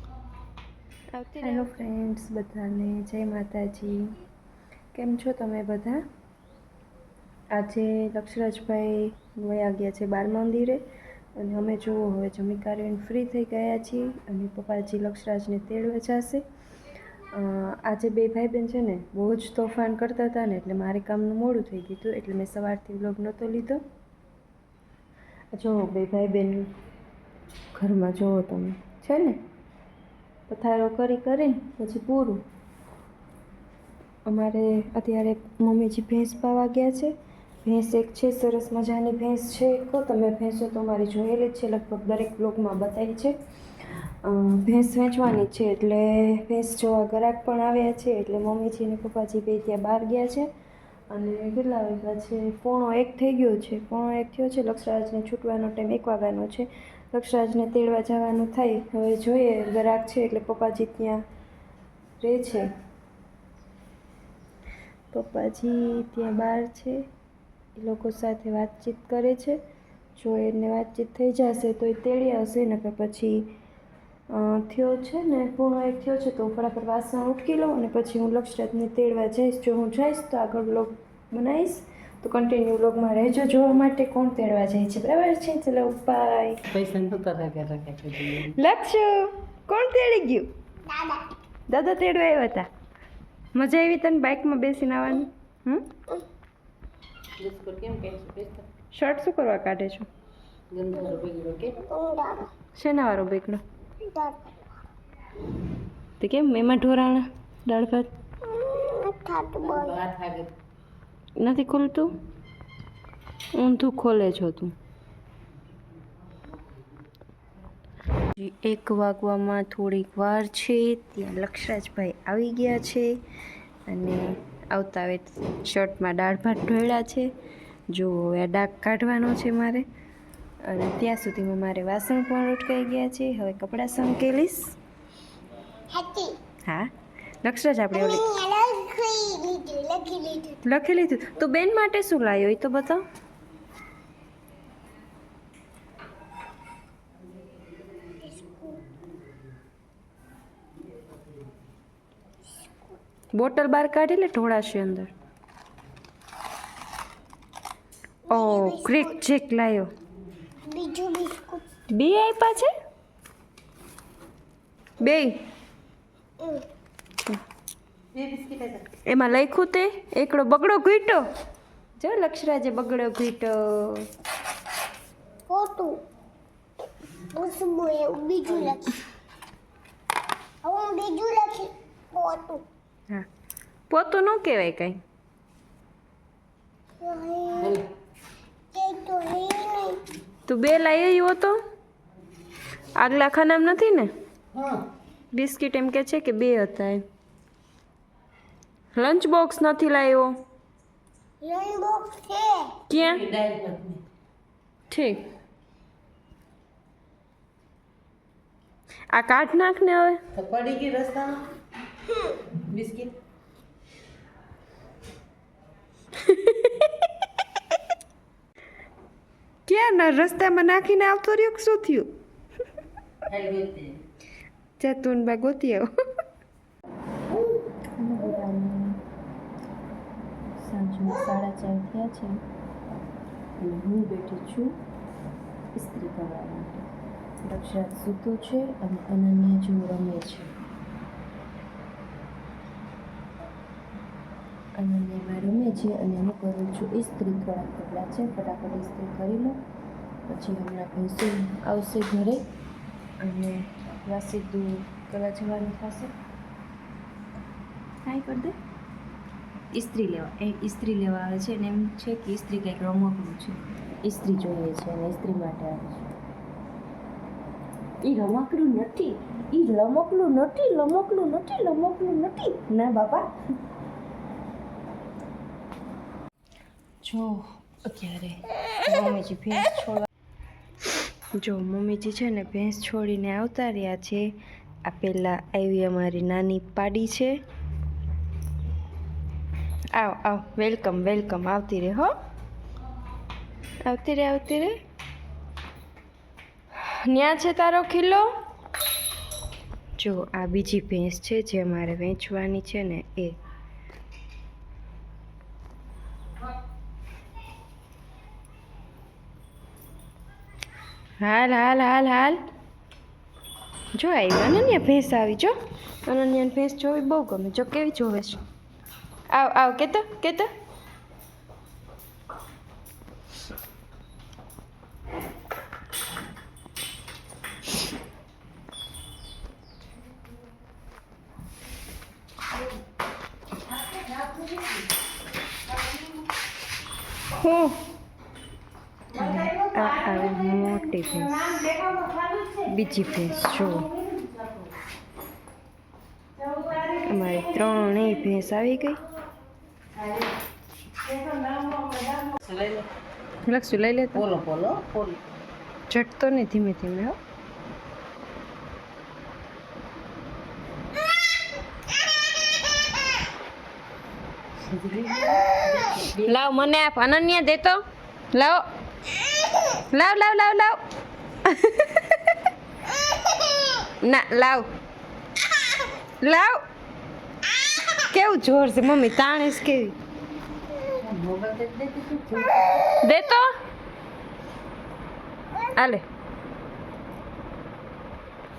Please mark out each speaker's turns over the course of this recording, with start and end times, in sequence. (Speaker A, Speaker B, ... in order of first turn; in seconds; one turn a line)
Speaker A: 1.1-4.1
Speaker A: 4.9-6.0
Speaker A: 7.5-10.8
Speaker A: 11.4-16.4
Speaker A: 17.3-23.8
Speaker A: 25.5-26.7
Speaker A: 27.7-29.4
Speaker A: 30.5-32.4
Speaker A: 34.2-43.3
Speaker A: 44.2-50.5
Speaker A: 51.1-61.2
Speaker A: 62.2-62.7
Speaker A: 65.1-67.0
Speaker A: 67.8-69.6
Speaker A: 70.2-73.5
Speaker A: 74.3-86.6
Speaker B: 86.7-88.5
Speaker A: 88.5-90.5
Speaker C: 90.9-91.3
Speaker A: 91.7-92.7
Speaker A: 93.5-95.9
Speaker B: 97.4-98.6
Speaker A: 98.9-100.1
Speaker B: 100.7-101.8
Speaker C: 101.8-102.5
Speaker A: 102.7-103.6
Speaker C: 104.0-104.7
Speaker A: 106.2-108.1
Speaker C: 108.4-110.0
Speaker B: 109.6-110.5
Speaker A: 111.4-112.2
Speaker A: 113.5-114.7
Speaker A: 118.3-123.2
Speaker A: 123.9-127.3
Speaker A: 127.9-129.8
Speaker A: 130.6-134.8
Speaker C: 135.9-136.4
Speaker A: 137.4-138.3
Speaker C: 137.9-140.6
Speaker A: 140.6-143.0
Speaker C: 148.1-148.9
Speaker C: 152.5-152.9
Speaker A: 153.3-155.1
Speaker C: 158.3-159.2
Speaker A: 158.3-159.9
Speaker C: 160.7-161.7
Speaker A: 161.9-162.7
Speaker A: 165.0-165.3
Speaker C: 166.4-166.7
Speaker B: 168.1-168.9
Speaker A: 169.0-171.2
Speaker A: 172.0-174.1
Speaker C: 175.5-176.0
Speaker C: 177.2-179.0
Speaker B: 178.5-178.8
Speaker C: 180.6-182.6
Speaker A: 183.9-185.0
Speaker C: 187.0-187.8
Speaker B: 187.6-187.9
Speaker C: 188.7-190.0
Speaker A: 190.4-191.6
Speaker A: 192.9-194.1
Speaker B: 194.5-194.8
Speaker A: 195.3-197.0
Speaker A: 198.9-200.3
Speaker C: 201.4-202.9
Speaker A: 202.9-203.2
Speaker B: 202.9-204.0
Speaker A: 204.9-205.2
Speaker A: 209.1-210.2
Speaker B: 210.3-211.5
Speaker B: 212.5-213.2
Speaker A: 216.2-216.9
Speaker A: 219.7-222.1
Speaker B: 223.3-224.0
Speaker A: 224.8-225.9
Speaker A: 228.0-229.0
Speaker A: 230.6-232.4
Speaker A: 233.6-234.8
Speaker A: 235.7-236.9
Speaker A: 237.4-240.5
Speaker A: 244.8-249.6
Speaker A: 250.3-252.4
Speaker A: 253.2-256.1
Speaker A: 258.0-258.5
Speaker A: 259.7-266.1
Speaker A: 268.0-273.3
Speaker A: 277.0-280.1
Speaker A: 281.3-284.3
Speaker A: 284.8-287.3
Speaker A: 289.9-292.1
Speaker A: 293.8-294.8
Speaker A: 296.8-298.3
Speaker A: 300.0-303.4
Speaker A: 311.2-312.4
Speaker A: 313.9-315.5
Speaker A: 316.1-318.4
Speaker A: 319.3-320.5
Speaker A: 337.3-337.8
Speaker A: 339.1-341.9
Speaker A: 342.5-343.9
Speaker A: 346.9-349.0
Speaker B: 351.1-352.9
Speaker A: 353.4-354.2
Speaker B: 354.1-355.2
Speaker A: 355.9-357.2
Speaker B: 364.6-366.3
Speaker A: 366.2-367.8
Speaker A: 368.3-368.6
Speaker A: 369.9-370.8
Speaker A: 371.4-372.1
Speaker A: 374.0-374.7
Speaker A: 376.2-376.6
Speaker A: 378.0-380.0
Speaker B: 380.9-383.0
Speaker A: 382.9-383.5
Speaker A: 385.7-386.0